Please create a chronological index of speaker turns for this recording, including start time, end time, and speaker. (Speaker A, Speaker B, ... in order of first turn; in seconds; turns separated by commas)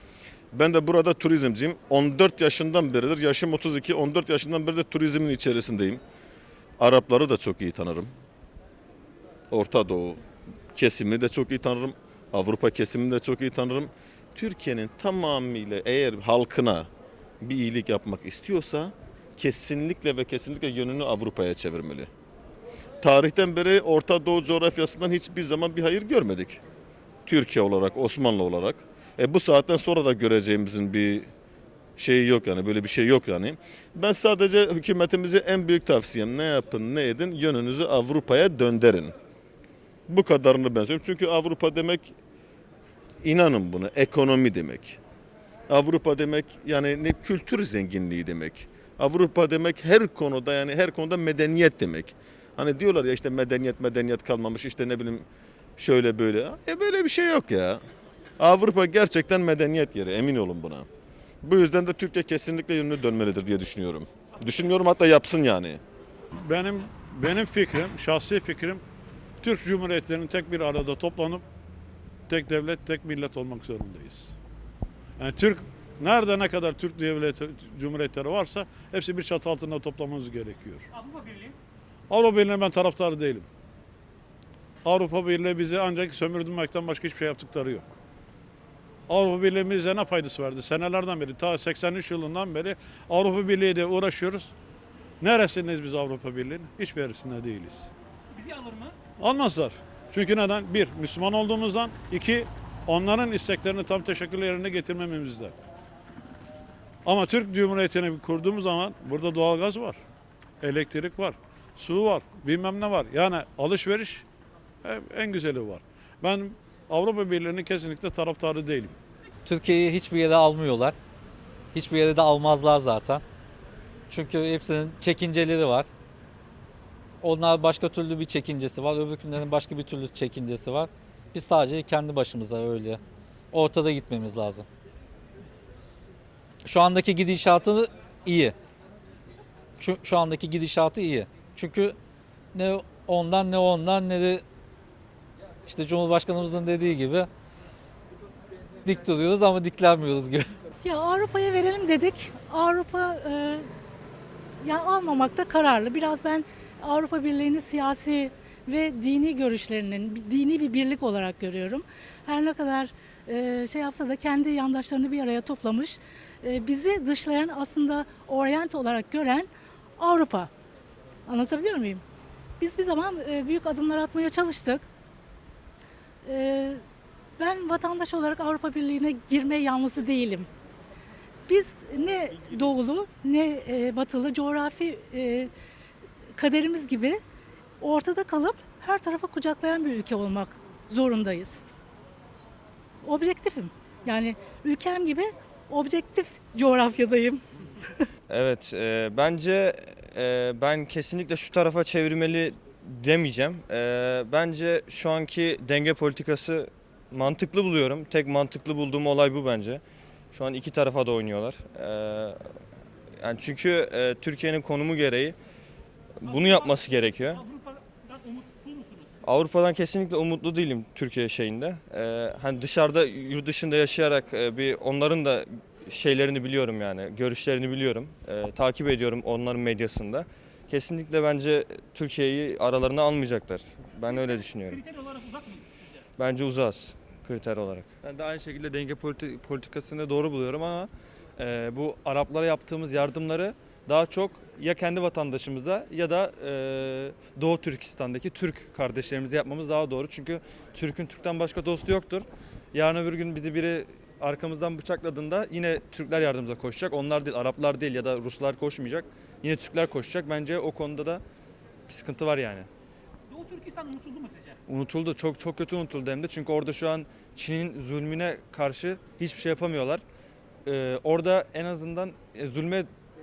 Speaker A: 0.5-6.0, Speaker A: 6.8-8.1, Speaker A: 9.5-10.2, Speaker A: 10.7-16.9, Speaker A: 17.4-22.1, Speaker A: 23.0-26.6, Speaker A: 27.3-31.3, Speaker A: 32.0-39.1, Speaker A: 40.1-42.1, Speaker A: 43.2-45.0, Speaker A: 45.7-55.3, Speaker A: 55.8-57.8, Speaker A: 58.4-60.9, Speaker A: 61.4-65.8, Speaker B: 66.4-68.8, Speaker B: 69.4-71.4, Speaker B: 72.3-74.3, Speaker B: 75.2-80.9, Speaker C: 81.2-81.5, Speaker B: 82.1-83.5, Speaker B: 84.8-87.9, Speaker B: 89.1-94.5, Speaker B: 95.2-97.9, Speaker C: 98.5-98.9, Speaker B: 99.2-105.5, Speaker B: 107.0-110.0, Speaker B: 110.6-114.2, Speaker B: 114.8-119.0, Speaker D: 119.5-120.9, Speaker D: 121.7-123.2, Speaker D: 124.1-125.9, Speaker D: 127.2-133.0, Speaker D: 133.5-134.7, Speaker D: 136.7-138.6, Speaker D: 139.8-141.9, Speaker D: 142.5-144.4, Speaker D: 145.7-147.3, Speaker D: 148.8-150.5, Speaker E: 150.8-153.7, Speaker E: 154.6-170.5, Speaker E: 171.3-172.0, Speaker E: 172.6-174.9, Speaker E: 176.2-176.8, Speaker E: 177.4-180.5, Speaker E: 181.5-185.5, Speaker E: 186.4-187.2, Speaker E: 187.8-191.7, Speaker E: 193.0-198.1, Speaker F: 198.3-209.8, Speaker F: 210.3-212.4, Speaker F: 213.2-215.4, Speaker F: 216.2-217.4, Speaker C: 218.4-219.1, Speaker F: 219.2-234.9, Speaker F: 236.2-237.9, Speaker G: 238.0-261.2, Speaker G: 261.9-262.7, Speaker C: 263.4-264.6, Speaker G: 264.7-270.0, Speaker G: 270.7-272.9